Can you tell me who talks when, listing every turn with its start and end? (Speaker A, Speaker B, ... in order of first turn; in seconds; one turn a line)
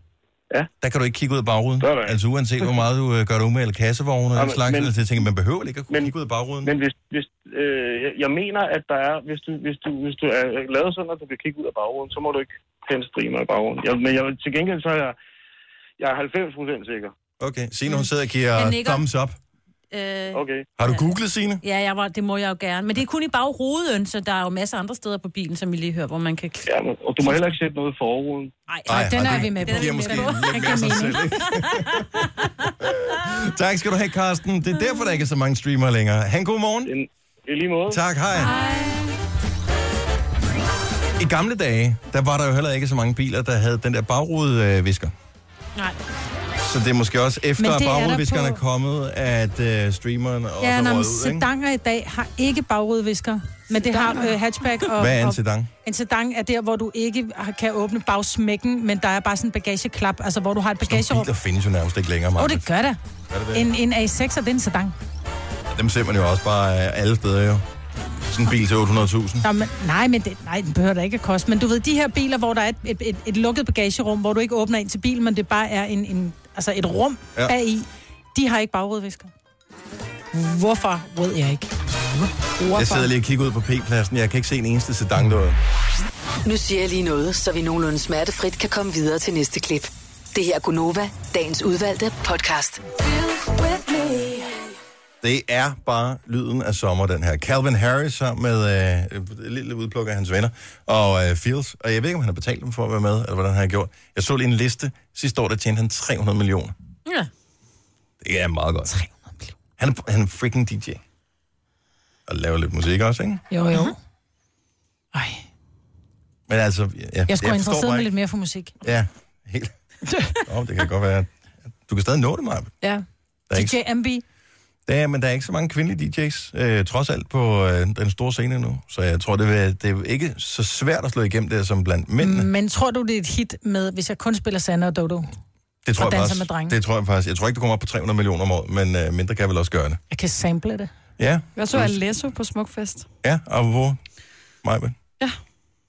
Speaker A: 0.8-6.7
Speaker B: 1.8-2.7
Speaker B: 4.3-5.0
Speaker B: 6.6-15.1
Speaker B: 16.0-17.1
Speaker A: 17.4-19.4
Speaker C: 18.6-19.0
Speaker C: 19.9-21.1
Speaker B: 20.3-20.6
Speaker A: 20.8-21.6
Speaker C: 21.6-26.7
Speaker B: 26.6-28.5
Speaker C: 28.7-32.7
Speaker A: 28.9-36.9
Speaker D: 28.9-31.2
Speaker B: 36.9-38.0
Speaker A: 37.9-38.5
Speaker C: 38.4-39.1
Speaker A: 41.2-45.1
Speaker A: 46.6-51.5
Speaker D: 47.6-48.6
Speaker D: 50.6-61.3
Speaker E: 53.9-54.3
Speaker A: 55.0-55.7
Speaker A: 60.9-62.7
Speaker D: 62.4-63.0
Speaker A: 63.3-63.7
Speaker D: 63.5-64.9
Speaker A: 65.7-67.6
Speaker A: 68.3-69.5
Speaker D: 69.4-79.3
Speaker D: 80.3-81.7
Speaker E: 82.6-83.0
Speaker A: 82.7-85.6
Speaker F: 86.4-92.8
Speaker A: 95.2-106.7
Speaker A: 108.2-108.9
Speaker D: 108.9-109.5
Speaker A: 109.8-111.0
Speaker A: 112.3-113.4
Speaker D: 113.5-114.0
Speaker D: 115.1-115.4
Speaker A: 116.5-118.1
Speaker D: 117.3-118.7
Speaker A: 118.8-119.7
Speaker D: 120.1-120.4
Speaker A: 120.5-121.3
Speaker A: 121.8-122.7
Speaker D: 122.8-124.2
Speaker A: 123.5-123.8
Speaker A: 124.8-132.5
Speaker D: 132.2-135.3
Speaker A: 135.8-140.0
Speaker D: 135.9-136.8
Speaker D: 140.1-140.9
Speaker A: 141.2-142.0
Speaker E: 141.6-143.1
Speaker A: 143.2-144.0
Speaker A: 144.6-144.9